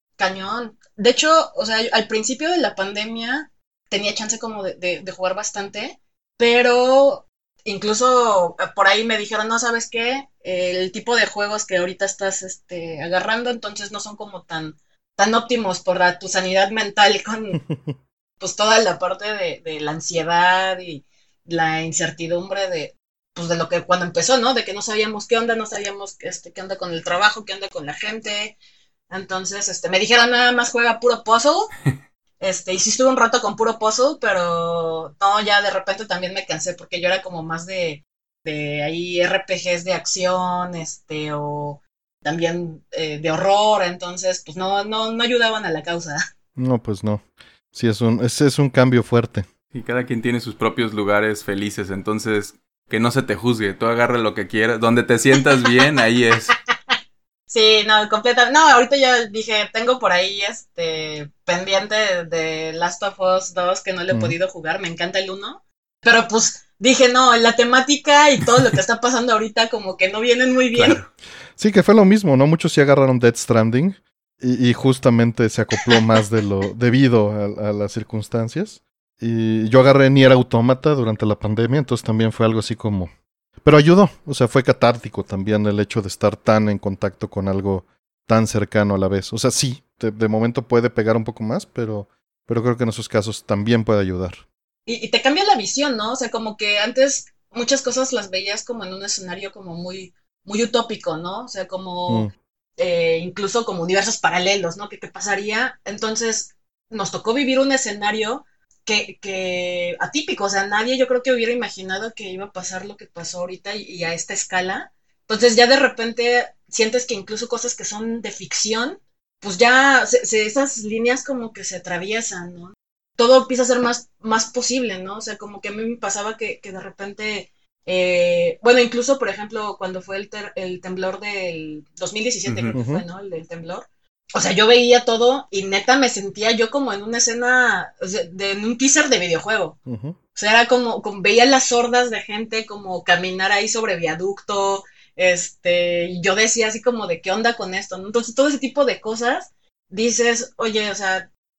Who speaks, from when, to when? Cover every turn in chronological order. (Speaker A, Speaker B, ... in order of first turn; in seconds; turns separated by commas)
Speaker A: 0.2-17.6, Speaker B: 17.7-17.9, Speaker A: 18.4-28.6, Speaker A: 29.1-31.7, Speaker A: 32.4-46.2, Speaker B: 46.6-49.5, Speaker C: 49.7-56.5, Speaker A: 57.5-71.0, Speaker B: 64.1-64.3, Speaker C: 70.7-71.1, Speaker B: 71.6-83.1, Speaker B: 83.6-94.4, Speaker A: 94.9-139.8, Speaker C: 132.5-132.8, Speaker B: 132.7-133.0, Speaker B: 139.8-140.2, Speaker A: 140.3-151.3